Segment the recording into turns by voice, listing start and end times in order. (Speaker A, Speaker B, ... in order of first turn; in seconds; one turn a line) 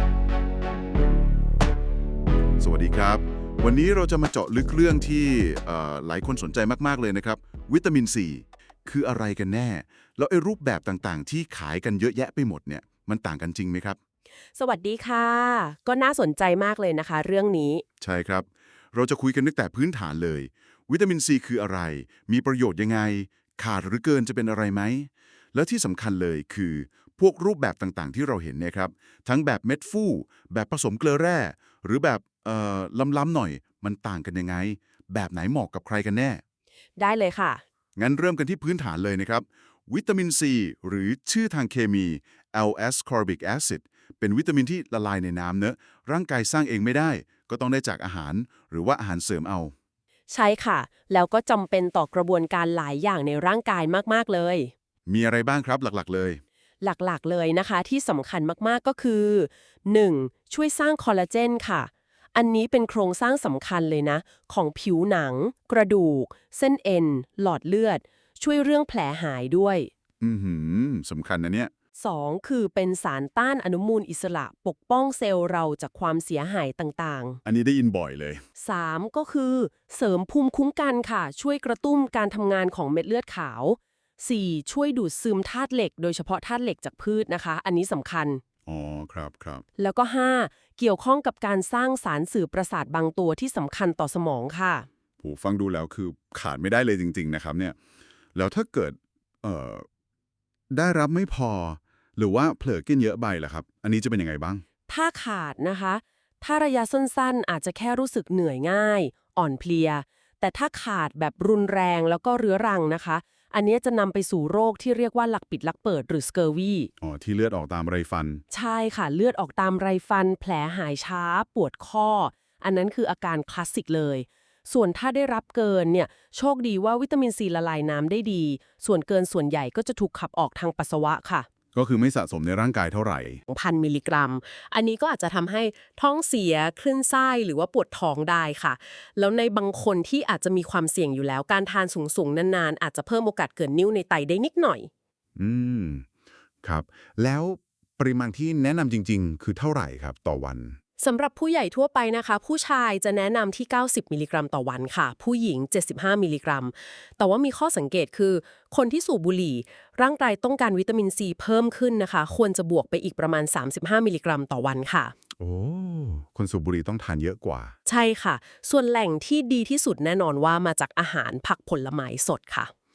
Speaker A: 2.6-14.0
Speaker B: 14.6-17.8
Speaker A: 18.0-36.4
Speaker B: 37.0-37.6
Speaker A: 38.0-49.7
Speaker B: 50.3-54.7
Speaker A: 55.1-56.4
Speaker B: 56.8-69.9
Speaker A: 70.2-71.7
Speaker B: 72.0-77.4
Speaker A: 77.5-78.4
Speaker B: 78.6-88.4
Speaker A: 88.7-89.6
Speaker B: 89.8-94.9
Speaker A: 95.2-97.8
Speaker A: 98.3-99.9
Speaker A: 100.7-104.6
Speaker B: 104.9-116.9
Speaker A: 117.0-118.4
Speaker B: 118.5-131.5
Speaker A: 131.7-133.4
Speaker B: 133.5-144.9
Speaker A: 145.4-146.1
Speaker A: 146.6-150.8
Speaker B: 151.0-165.1
Speaker A: 165.4-167.7
Speaker B: 167.9-172.7